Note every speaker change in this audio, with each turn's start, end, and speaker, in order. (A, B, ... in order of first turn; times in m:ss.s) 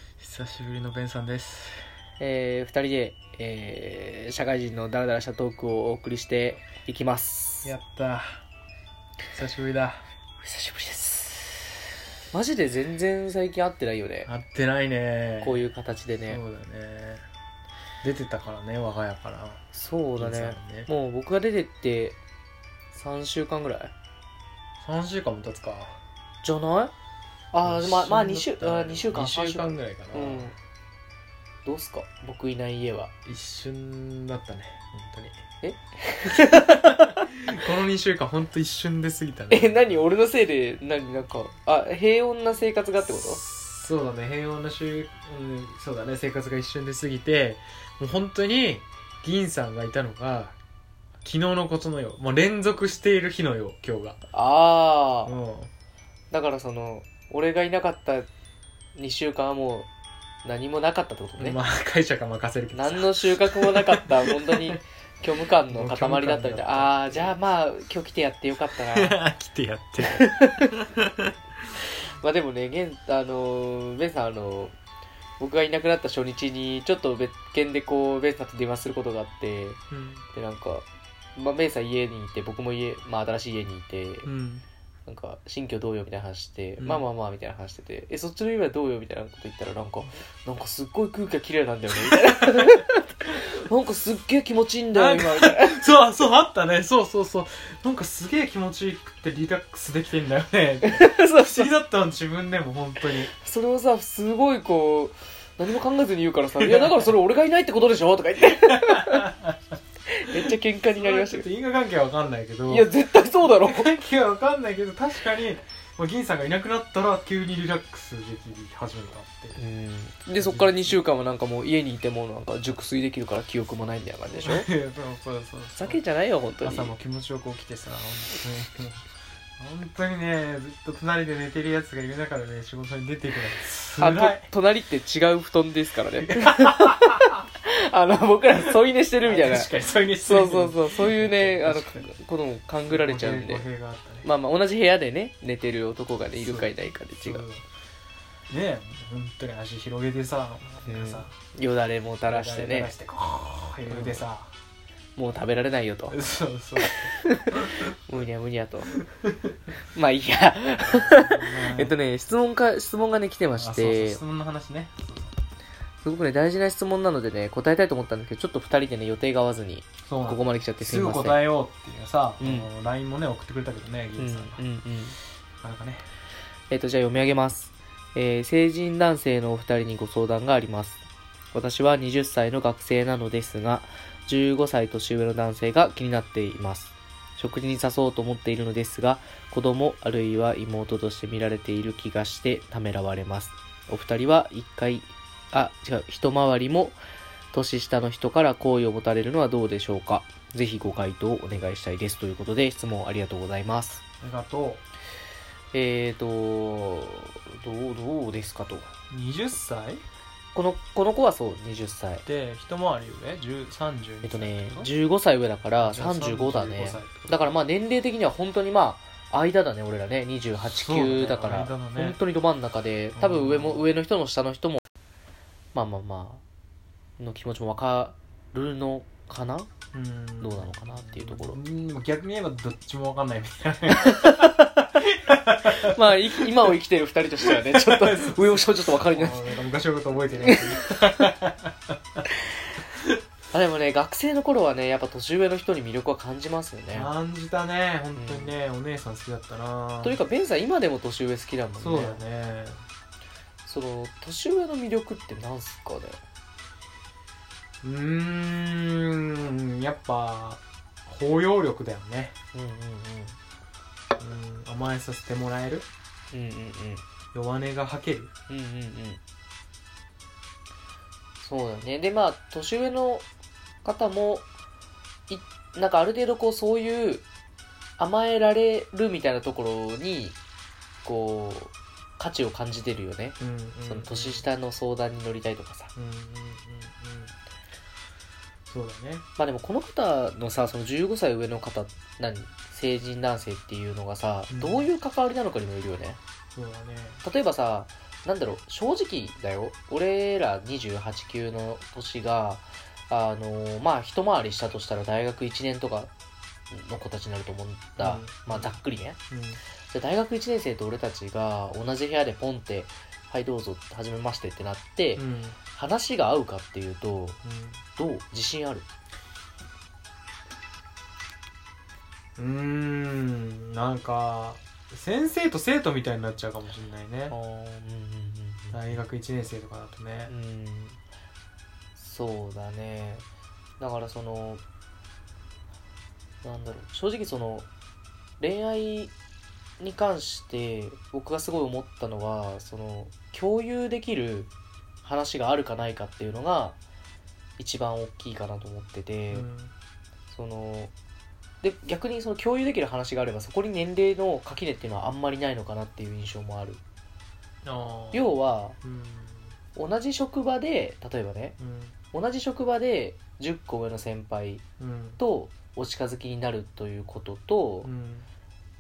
0:00.2-0:01.9 A
0:02.2-0:07.7 B
0:07.6-0:08.4 A
0:09.3-0:10.0 A
0:10.4-0:11.7 B
0:12.3-0:14.3 B
0:14.3-0:15.6 A
0:15.4-0:16.4 B
0:16.3-0:17.3 A
0:18.0-0:19.6 A
0:19.7-0:22.2 B
0:20.2-0:20.9 A
0:22.9-0:23.9 B
0:24.8-0:26.0 A
0:26.4-0:26.9 B
0:27.5-0:30.5 B
0:27.6-0:30.5 A
0:31.6-0:33.1 B
0:33.2-0:35.4 A
0:35.6-0:37.3 B
0:36.4-0:40.0 A
0:39.5-0:43.4 B
0:43.0-0:50.6 A
0:51.2-0:54.2 A
0:54.3-0:55.4 B
0:55.2-0:55.7 A
0:56.3-0:58.3 B
0:59.0-0:59.9 B
1:00.4-1:01.6 B
1:01.4-1:04.8 A
1:02.7-1:09.2 B
1:05.7-1:07.3 A
1:08.9-1:11.3 A
1:10.0-1:10.7 B
1:12.2-1:14.7 B
1:15.4-1:19.8 B
1:19.9-1:20.2 A
1:20.3-1:20.8 B
1:21.4-1:24.3 B
1:24.2-1:24.6 A
1:25.1-1:35.8 B
1:26.8-1:27.0 A
1:32.1-1:32.8 A
1:34.9-1:43.3 A
1:40.8-1:41.7 B
1:43.3-1:49.3 B
1:46.6-1:47.1 A
1:48.6-1:49.6 A
1:50.1-1:51.5 B
1:50.3-1:59.6 A
1:52.7-1:54.0 B
1:59.6-2:04.7 B
2:00.4-2:01.0 A
2:04.3-2:06.0 A
2:05.8-2:06.9 B
2:06.6-2:14.5 A
2:14.0-2:23.7 B
2:16.2-2:17.4 A
2:19.2-2:22.1 A
2:22.9-2:24.3 A
2:24.2-2:27.4 B
2:26.3-2:27.7 A
2:28.5-2:31.4 A
2:30.8-2:32.9 B
2:32.3-2:34.5 A
2:33.9-2:34.3 B
2:35.2-2:36.2 B
2:36.1-2:37.8 A
2:36.8-2:39.0 B
2:39.0-2:39.5 A
2:39.9-2:44.2 B
2:40.8-2:42.0 A
2:43.6-2:45.4 A
2:46.0-2:51.4 B
2:50.1-2:54.6 A
2:52.4-2:52.7 B
2:54.2-2:55.2 B
2:55.6-2:56.1 A
2:56.7-3:17.0 B
3:17.5-3:24.0 B
3:24.2-3:24.8 A
3:25.7-3:28.9 B
3:29.1-3:30.0 A
3:30.6-3:32.2 B
3:32.2-3:34.9 A
3:34.2-3:44.8 B
3:35.8-3:37.4 A
3:40.6-3:42.2 A
3:43.1-3:43.9 A
3:45.7-3:46.4 B
3:47.2-3:49.7 B
3:49.9-3:56.5 A
3:50.4-3:51.6 B
3:54.0-3:54.7 B
3:55.8-3:59.5 B
3:57.5-4:02.2 A
4:00.4-4:01.3 B
4:03.5-4:07.1 B
4:06.9-4:10.2 A
4:08.2-4:08.6 B
4:10.0-4:12.2 B
4:11.8-4:12.8 A
4:13.6-4:16.2 B
4:17.8-4:22.4 A
4:22.5-4:23.4 B
4:24.2-4:25.9 A
4:26.3-4:27.0 B
4:27.3-4:28.3 A
4:28.5-4:29.2 B
4:31.4-4:33.2 B
4:33.8-4:34.4 B
4:35.3-4:37.2 B
4:38.0-4:40.4 B
4:41.0-4:45.9 B
4:43.4-4:44.5 A
4:46.0-4:47.3 A
4:48.7-4:49.2 A
4:49.4-4:56.2 B
4:54.5-4:54.9 A
4:56.6-4:57.2 A
4:57.2-5:06.1 B
5:06.7-5:09.2 B
5:08.0-5:08.7 A
5:09.3-5:09.6 A
5:09.9-5:17.4 B
5:15.2-5:15.6 A
5:17.4-5:17.8 A
5:18.0-5:18.9 B
5:22.4-5:27.4 A
5:27.3-5:29.0 B
5:28.7-5:30.3 A
5:30.3-5:31.0 B
5:32.0-5:33.3 B
5:33.8-5:34.6 B
5:36.4-5:37.7 B
5:38.4-5:39.1 B
5:39.8-5:44.5 B
5:45.0-5:46.8 B
5:47.6-5:49.5 B
5:49.3-5:49.7 A
5:50.3-5:50.9 B
5:51.6-5:56.8 B
5:57.6-5:58.3 A
5:58.1-5:58.8 B
5:58.8-5:59.5 A
5:59.8-6:01.6 B
6:01.6-6:02.0 A
6:02.1-6:04.6 B
6:04.8-6:05.2 A
6:05.2-6:07.9 B
6:07.8-6:08.3 A